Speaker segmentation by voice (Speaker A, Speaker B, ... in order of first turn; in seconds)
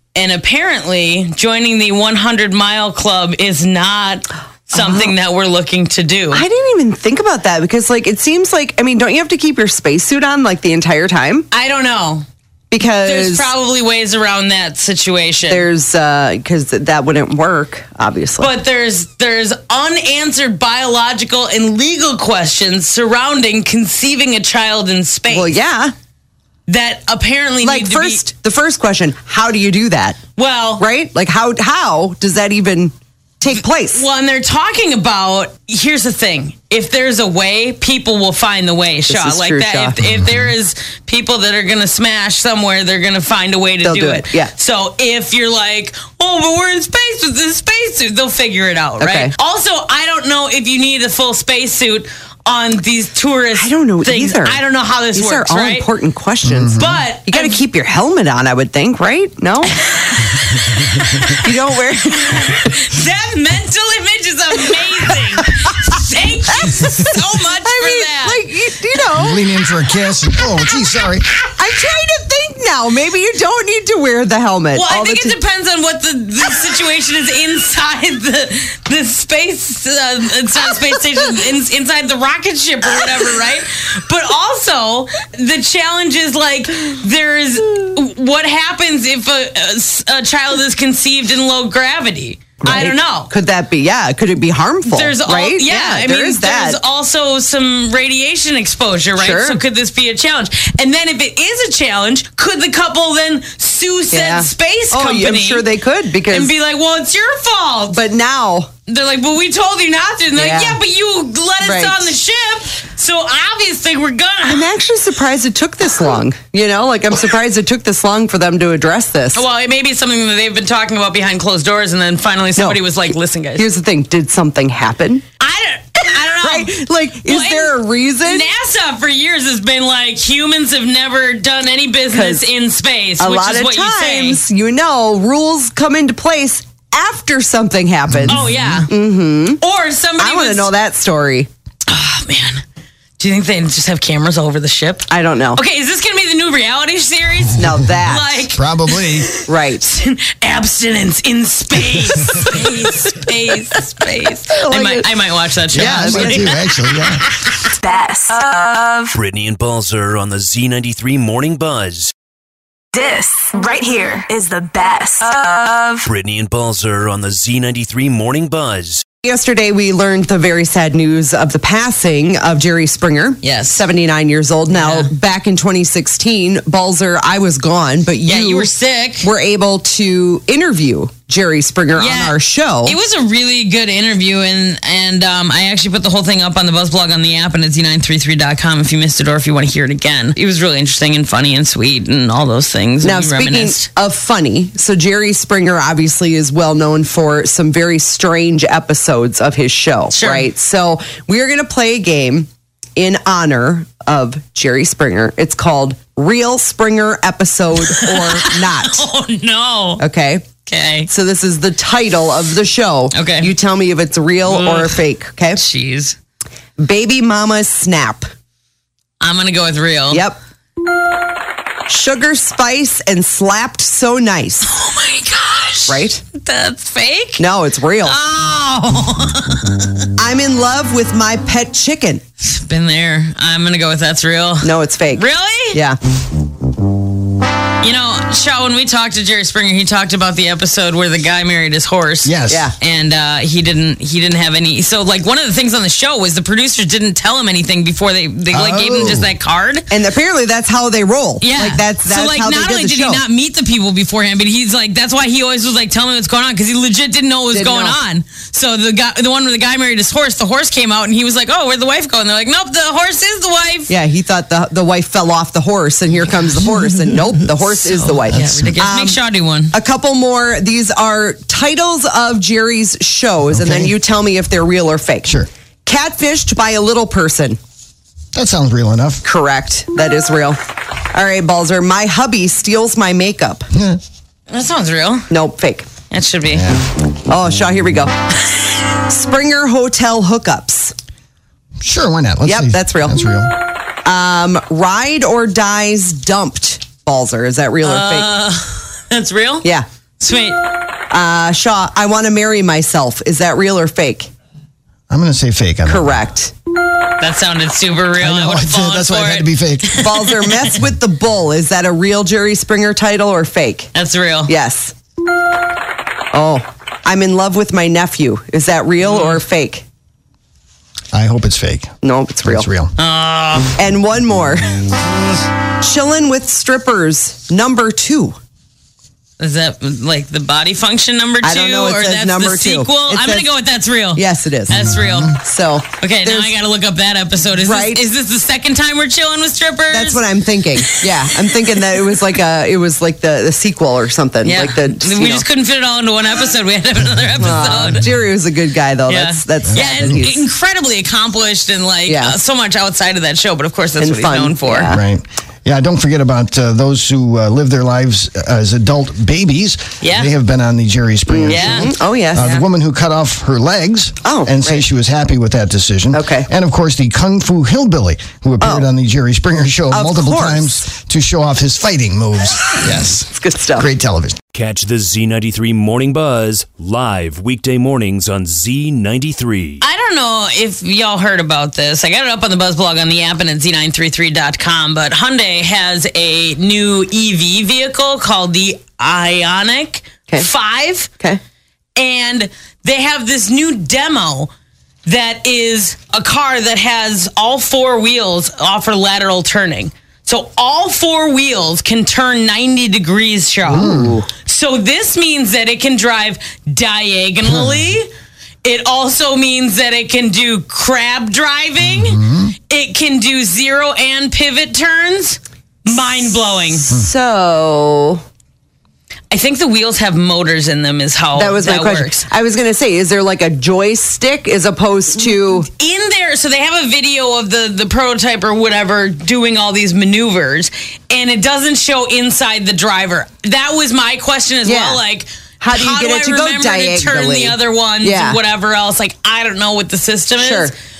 Speaker A: 0.1-6.4, 11.5-12.2, 13.0-15.6, 18.4-25.6, 26.7-28.2, 30.4-30.8, 33.9-55.9, 56.8-57.6, 59.8-61.4, 62.0-68.4, 74.7-93.3, 94.9-105.7, 106.3-108.0, 108.9-114.7, 119.3-123.7, 125.4-134.4, 138.3-138.9, 139.6-140.7, 141.9-142.6, 143.2-156.6, 173.4-173.8, 174.7-175.1, 178.2-179.3, 182.0-193.9, 200.1-200.5, 207.9-210.0, 210.6-211.1, 213.1-213.5, 214.5-215.0, 215.6-216.2, 219.2-220.2, 224.6-227.4, 228.0-230.1, 232.4-235.8, 237.8-249.9, 251.4-263.9, 268.1-269.7, 284.5-285.3, 286.1-286.8, 297.8-299.7, 300.2-300.6, 307.2-310.6, 313.9-314.5, 319.0-319.4, 323.0-323.7, 329.4-335.4, 336.0-340.2, 344.4-348.0, 349.1-354.9, 360.0-360.3, 361.5-362.6, 379.8-391.1, 391.9-394.5, 395.1-408.1, 408.6-416.9, 419.3-422.2, 425.2-440.7
Speaker B: 4.7-5.1, 6.3-11.5, 12.7-13.5, 15.5-18.5, 25.3-25.9, 27.6-30.2, 30.8-34.0, 39.1-39.9, 43.8-44.5, 49.0-49.3, 53.5-54.6, 55.1-59.8, 61.4-62.5, 66.5-69.5, 71.6-75.3, 92.6-96.8, 99.2-99.6, 104.1-106.5, 107.9-108.7, 110.3-110.8, 111.6-112.1, 114.5-119.4, 123.5-125.2, 126.4-128.5, 132.1-132.4, 133.2-139.6, 140.2-141.5, 145.1-145.6, 147.6-148.4, 149.5-149.8, 154.5-155.1, 155.7-156.5, 169.2-178.7, 179.2-183.0, 193.0-209.0, 210.0-210.4, 211.1-215.6, 216.8-218.3, 220.1-220.4, 221.9-224.7, 225.9-226.2, 227.4-228.2, 230.2-232.2, 234.6-236.0, 242.5-242.7, 249.9-253.2, 257.5-258.0, 263.9-269.2, 269.7-277.6, 279.2-280.6, 281.1-283.7, 285.3-285.9, 287.2-288.1, 289.1-290.9, 292.4-293.2, 294.0-298.3, 301.1-304.3, 305.9-306.5, 310.0-313.9, 314.5-314.9, 316.3-319.8, 322.0-322.7, 323.8-324.8, 325.8-328.4, 331.4-333.5, 334.1-336.5, 337.5-338.1, 339.9-345.4, 347.4-350.4, 352.1-352.4, 354.0-355.0, 361.3-362.6, 364.2-364.8, 366.1-366.5, 368.6-368.9, 369.9-370.8, 373.3-373.9, 403.7-404.3, 415.9-418.2, 421.3-425.7, 434.6-435.0, 435.6-438.4, 440.4-440.7
Speaker C: 56.4-57.0, 69.1-71.3, 138.1-138.4, 148.5-149.3, 155.7-157.2, 242.2-242.7, 248.5-249.3, 268.3-268.7, 273.5-273.9, 278.3-279.2, 283.7-284.0, 286.5-286.8, 291.8-293.5, 305.1-306.2, 308.2-310.0, 321.1-322.9, 349.7-350.2, 354.9-374.4, 403.7-404.2, 407.5-407.8, 411.8-412.5
Speaker D: 157.6-159.1, 162.9-166.1
Speaker E: 159.1-162.1, 166.0-169.0, 374.5-379.8